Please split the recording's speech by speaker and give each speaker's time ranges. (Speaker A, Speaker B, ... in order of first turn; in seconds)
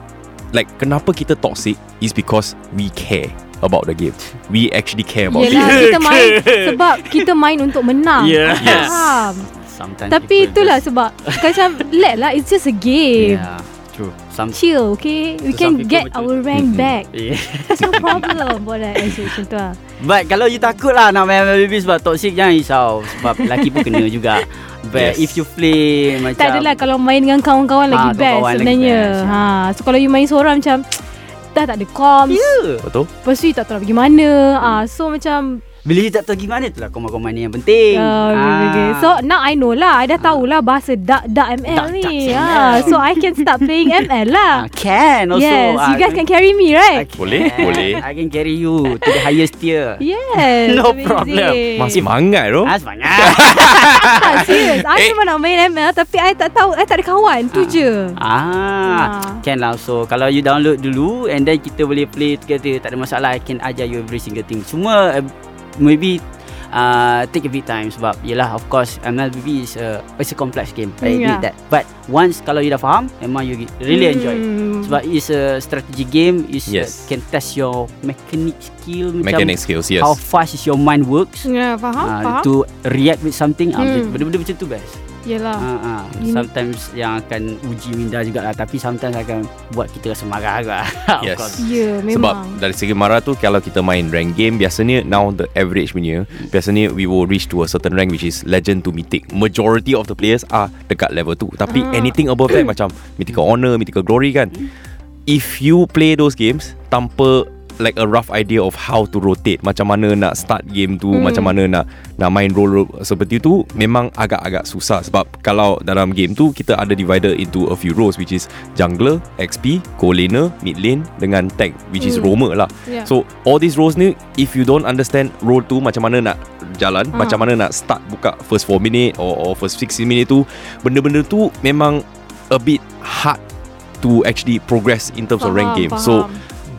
Speaker A: 0.5-6.0, 8.6-9.0, 16.5-16.9, 24.9-25.4, 32.8-33.1, 47.2-48.0, 51.8-55.1, 76.7-77.0, 79.2-80.2, 91.2-104.7, 105.3-133.4, 134.0-136.3
Speaker B: 5.3-9.5, 10.1-13.4, 14.5-17.1, 17.7-19.8, 23.3-24.0, 26.2-32.4, 33.2-35.6, 37.9-44.7, 45.3-48.0, 50.0-52.0, 53.5-58.2, 58.9-59.4, 71.0-71.5, 73.9-75.0, 81.4-82.5, 83.8-84.2, 85.2-86.5, 91.6-92.6, 101.7-102.7, 111.1-111.5, 122.0-122.3, 127.1-127.5, 135.4-136.4
Speaker C: 5.4-7.3, 8.2-11.8, 13.2-14.6, 15.5-18.4, 19.0-19.3, 20.0-26.8, 27.9-29.5, 32.3-32.9, 35.9-39.2, 40.2-40.5, 41.7-43.9, 44.5-46.2, 46.9-52.0, 52.6-53.6, 57.5-85.0, 85.6-91.7